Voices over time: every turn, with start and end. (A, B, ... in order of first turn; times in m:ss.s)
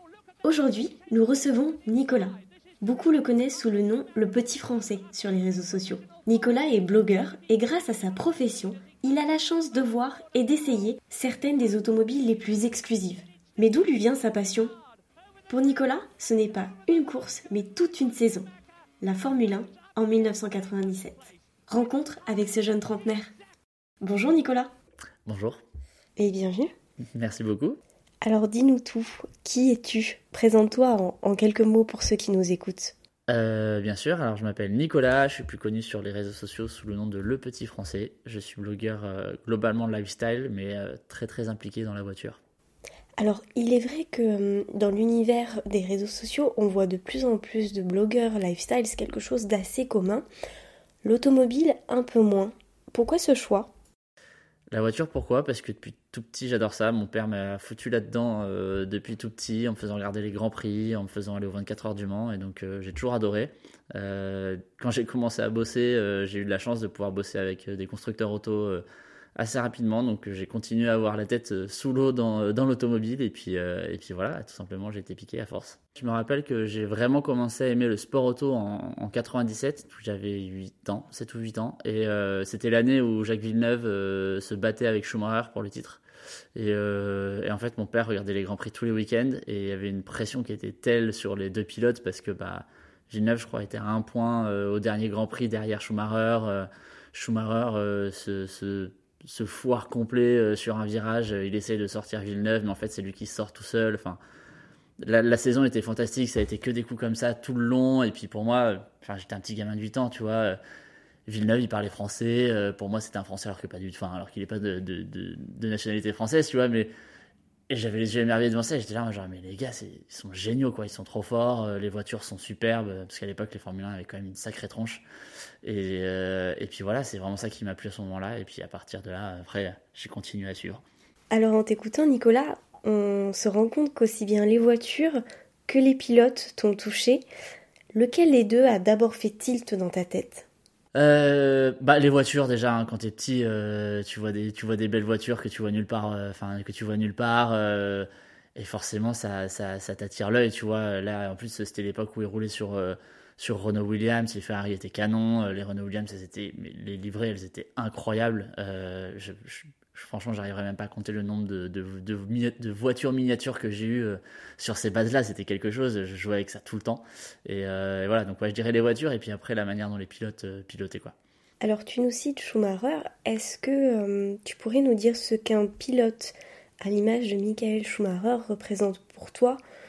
0:00.4-0:14.7 A
0:15.5-0:18.5 A
0:19.0-0:23.3 A
0:24.0-0:24.7 A
0:25.2-0:25.6 B
0:26.2-0:26.7 A
0:27.1-0:27.8 B
0:28.2-0:32.9 A
0:33.3-0:42.4 B
0:43.2-0:50.2 A
0:51.0-0:53.7 A
0:54.7-1:08.8 B
1:09.4-1:26.0 B
1:26.6-1:44.2 B
1:45.0-1:50.6 B
1:51.3-1:56.9 B
1:57.7-2:05.0 B
2:05.6-2:10.8 B
2:11.3-2:17.2 A
2:17.9-2:20.4 A
2:20.9-2:51.1 B
2:51.6-2:59.6 A